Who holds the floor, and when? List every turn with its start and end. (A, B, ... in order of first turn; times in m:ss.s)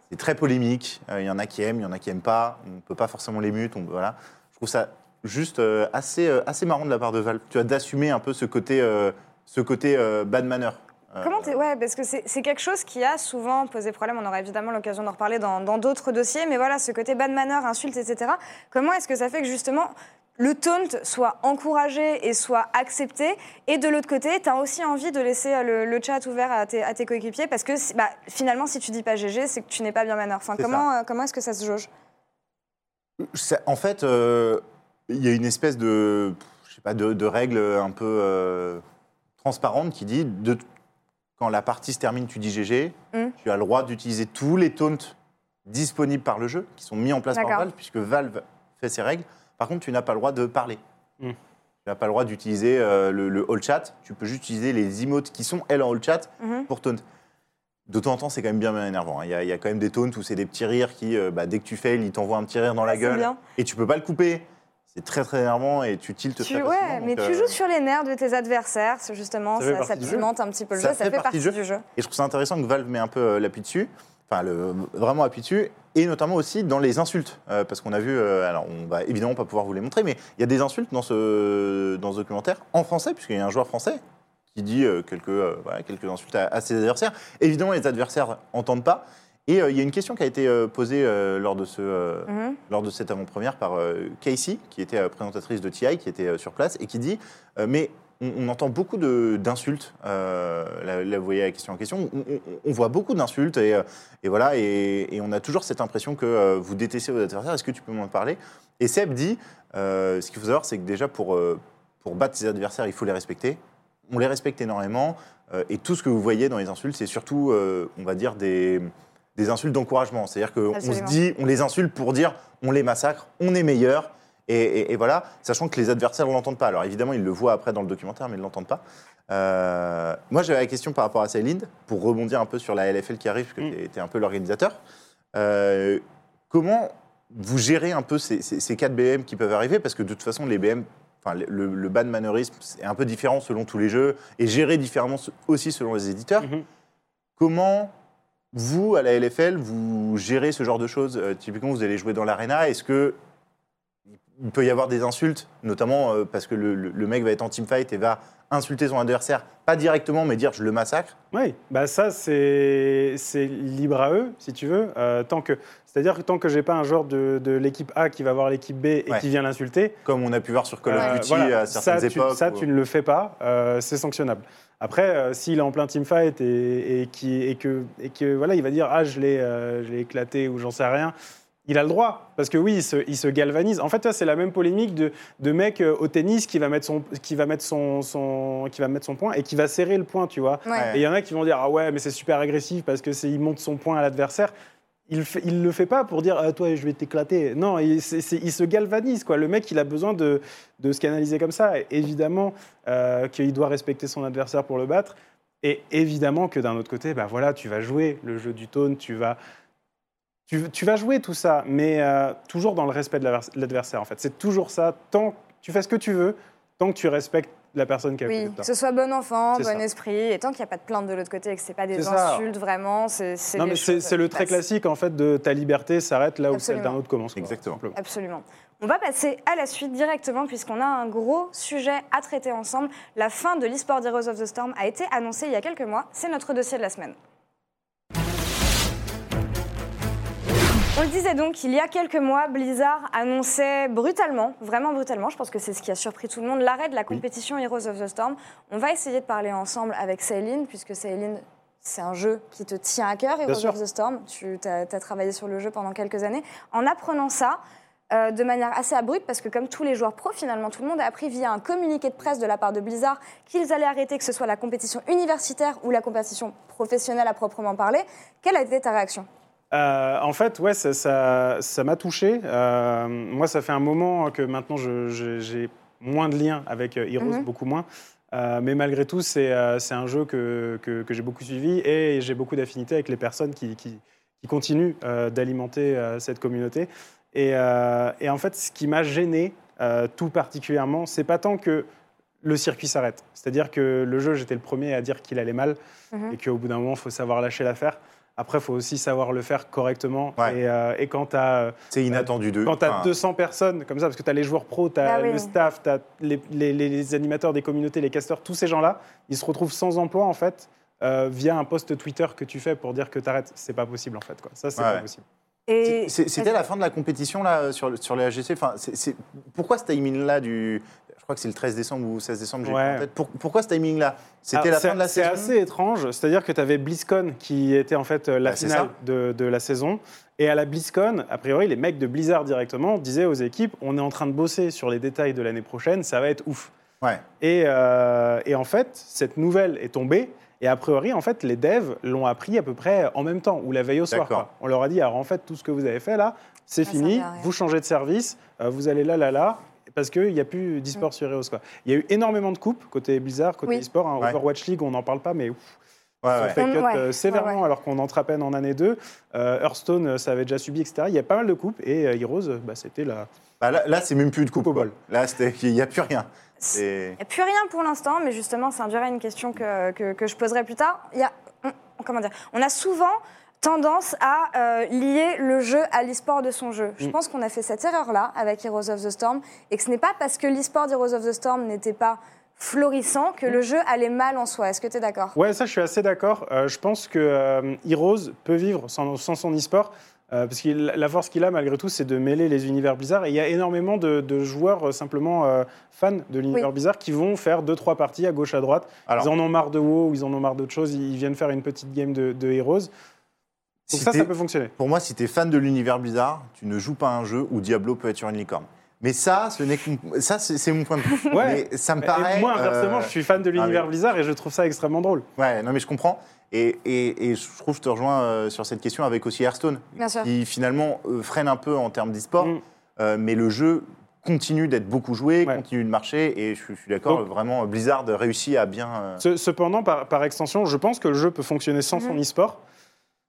0:00.1-0:11.6 A
0:11.2-0:31.9 B
0:30.6-0:30.9 A
0:33.2-0:38.8 A
0:39.4-0:40.6 A
0:41.4-0:45.1 A
0:45.6-0:50.8 A
0:47.3-0:47.6 B
0:51.8-0:57.0 A
0:56.4-0:56.7 B
0:57.9-1:07.6 A
1:02.9-1:03.4 B
1:06.4-1:11.8 B
1:09.6-1:10.3 C
1:10.8-1:24.0 A
1:24.5-2:14.8 A
1:32.3-1:32.6 B
2:00.7-2:01.2 B
2:15.3-2:26.5 A
2:26.4-2:26.6 C
2:27.4-2:27.9 A
2:28.5-2:33.2 A
2:34.3-2:41.2 A
2:41.3-2:50.0 C
2:50.0-2:52.7 A
2:50.8-3:01.2 C
3:01.7-3:14.5 C
3:10.7-3:10.9 B
3:10.7-3:11.0 A
3:15.1-3:29.4 C
3:30.5-3:38.7 C
3:38.3-3:44.6 B
3:39.6-3:39.8 C
3:41.9-3:42.4 C
3:43.6-3:48.0 C
3:46.5-3:47.0 B
3:47.4-3:47.8 A
3:47.9-3:57.2 B
4:01.0-4:17.6 B
4:13.5-4:13.8 C
4:18.1-4:29.3 B
4:29.7-4:51.9 C
4:37.2-4:37.4 B
4:52.4-4:55.8 C
4:56.3-5:15.2 C
5:01.9-5:03.1 A
5:05.0-5:05.5 B
5:14.8-5:15.0 A
5:15.7-5:16.5 B
5:15.8-5:25.5 A
5:22.7-5:23.1 C
5:24.5-5:36.7 C
5:28.4-5:28.9 A
5:37.4-5:55.6 C
5:44.1-5:44.5 A
5:46.9-5:47.5 B
5:56.2-5:56.6 A
5:56.3-6:03.3 C
5:56.6-5:57.6 B
6:03.6-6:07.2 A
6:04.6-6:05.0 C
6:07.2-6:25.4 B
6:25.4-6:42.9 C
6:43.9-6:44.7 C
6:43.9-6:53.9 A
6:51.3-6:55.2 C
6:55.4-7:09.2 A
7:00.0-7:00.3 B
7:09.2-7:12.6 C